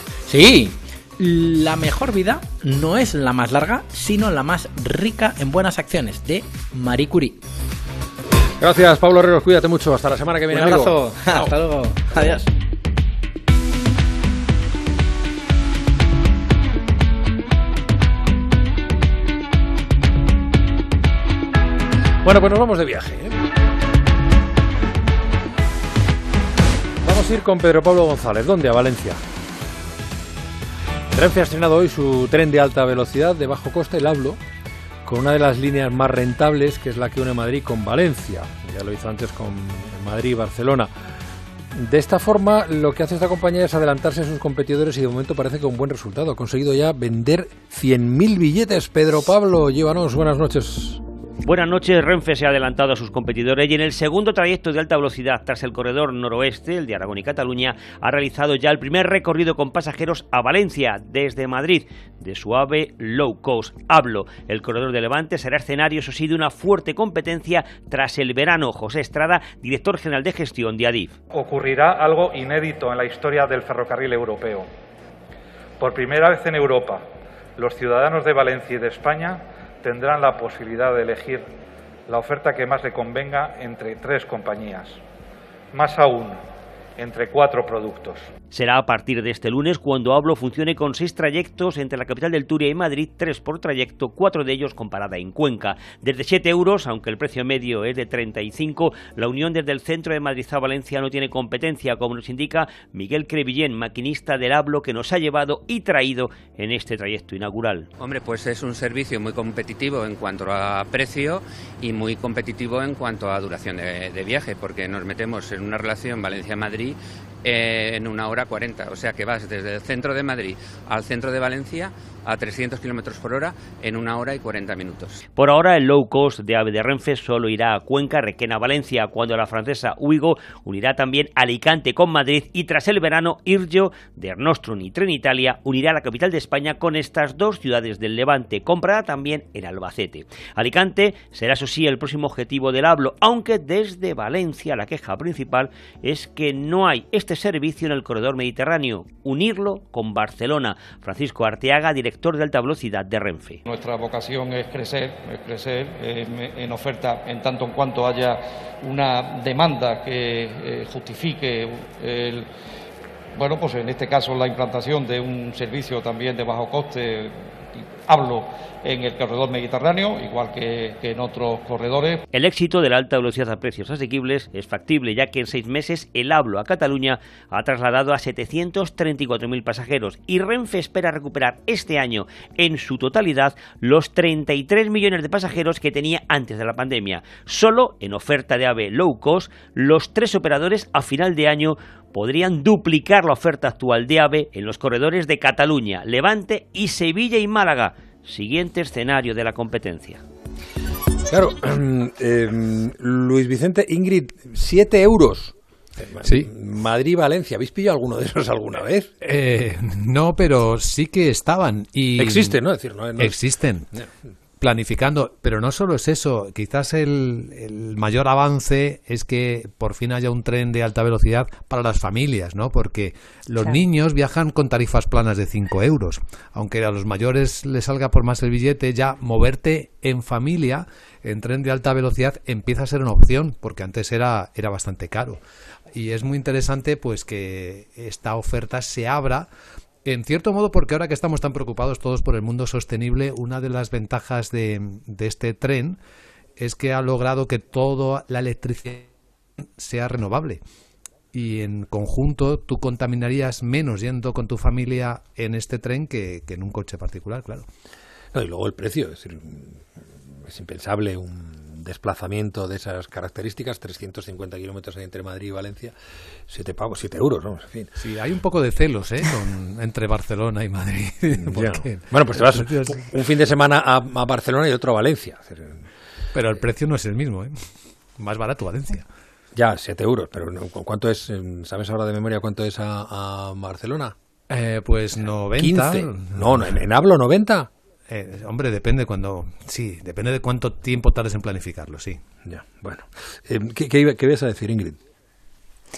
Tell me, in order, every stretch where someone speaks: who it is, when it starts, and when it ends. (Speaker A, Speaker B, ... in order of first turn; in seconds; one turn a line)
Speaker A: 0.3-7.4
Speaker B: 8.6-11.0
Speaker A: 10.5-12.5
Speaker B: 22.2-23.4
Speaker B: 27.0-29.2
Speaker B: 31.1-34.4
Speaker B: 35.0-40.9
Speaker B: 41.7-51.0
Speaker C: 51.4-71.2
Speaker D: 71.3-74.7
Speaker D: 75.8-77.0
Speaker D: 77.6-81.5
Speaker D: 82.1-85.0
Speaker D: 85.7-86.4
Speaker D: 87.0-88.3
Speaker C: 88.5-107.9
Speaker E: 108.0-125.2
Speaker C: 125.2-153.6
Speaker F: 153.7-162.5
Speaker F: 163.3-172.2
Speaker C: 172.3-200.2
Speaker B: 201.3-209.1
Speaker G: 206.2-206.5
Speaker G: 209.2-212.6
Speaker B: 212.2-213.4
Speaker G: 213.2-213.9
Speaker G: 214.6-235.4
Speaker G: 235.9-239.5
Speaker G: 240.0-246.0
Speaker G: 246.6-249.1
Speaker G: 249.8-250.6
Speaker G: 251.3-257.6
Speaker B: 258.3-259.9
Speaker B: 260.4-265.9
Speaker B: 266.5-267.9
Speaker G: 268.0-273.0
Speaker B: 271.3-275.8
Speaker G: 276.3-277.6
Speaker G: 278.2-279.1
Speaker B: 279.5-284.1
Speaker G: 284.5-286.8
Speaker B: 285.6-287.7
Speaker G: 288.1-292.2
Speaker B: 292.4-295.0